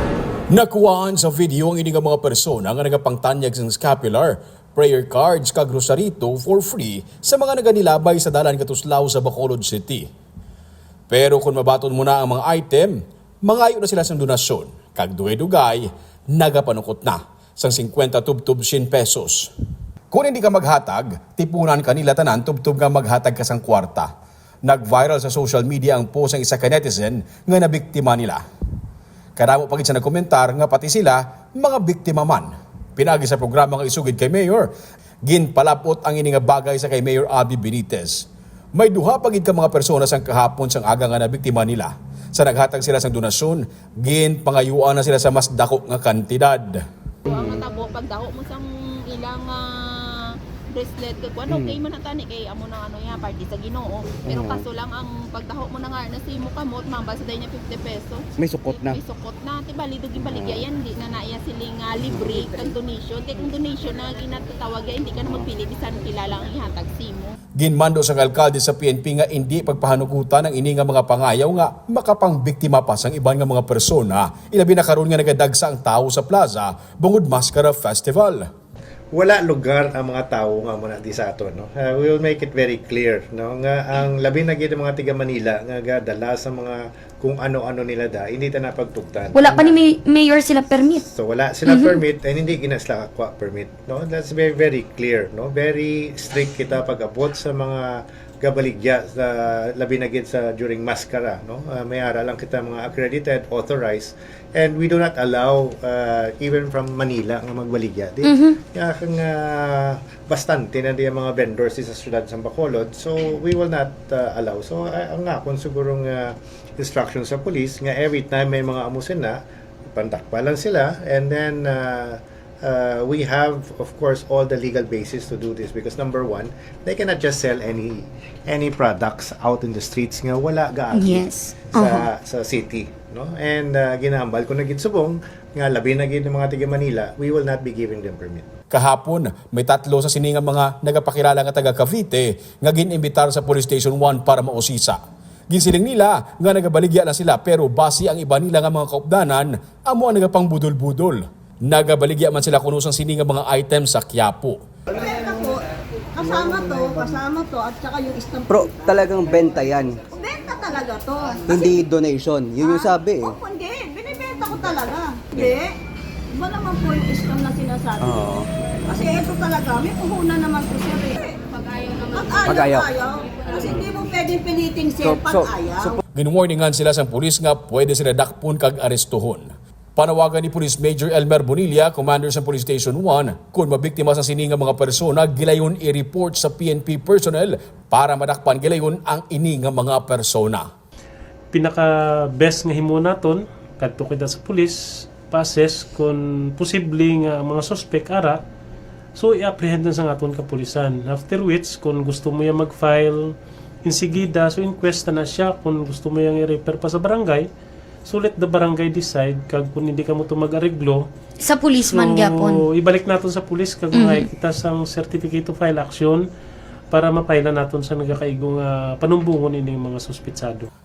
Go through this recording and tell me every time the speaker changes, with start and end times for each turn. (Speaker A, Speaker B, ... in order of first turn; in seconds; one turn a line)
Speaker A: 0.5-10.0
Speaker A: 11.1-12.9
Speaker A: 13.4-19.5
Speaker A: 20.1-24.1
Speaker A: 24.6-28.4
Speaker A: 29.4-34.7
Speaker A: 35.2-46.8
Speaker B: 47.2-50.1
Speaker B: 50.7-67.3
Speaker C: 51.5-51.8
Speaker C: 54.3-54.6
Speaker C: 58.4-59.0
Speaker C: 60.2-60.6
Speaker C: 62.0-62.3
Speaker A: 67.6-78.4
Speaker D: 79.1-89.8
Speaker E: 89.3-91.0
Speaker D: 91.0-119.4
Speaker D: 119.9-138.5
Speaker E: 130.9-132.1
Speaker A: 138.7-145.0
Speaker A: 145.5-154.6
Speaker F: 154.9-155.6
Speaker F: 156.1-159.0
Speaker C: 158.4-160.0
Speaker F: 160.1-161.8
Speaker C: 161.5-163.4
Speaker F: 162.6-165.7
Speaker F: 166.3-168.2
Speaker C: 168.0-168.4
Speaker F: 168.9-171.3
Speaker F: 172.1-176.0
Speaker C: 172.4-172.9
Speaker C: 173.6-173.9
Speaker C: 175.0-176.0
Speaker A: 176.1-190.7
Speaker G: 191.5-198.4
Speaker G: 199.1-207.5
Speaker G: 208.0-211.1
Speaker E: 211.4-212.6
Speaker G: 211.8-216.2
Speaker E: 213.9-214.3
Speaker G: 216.9-220.7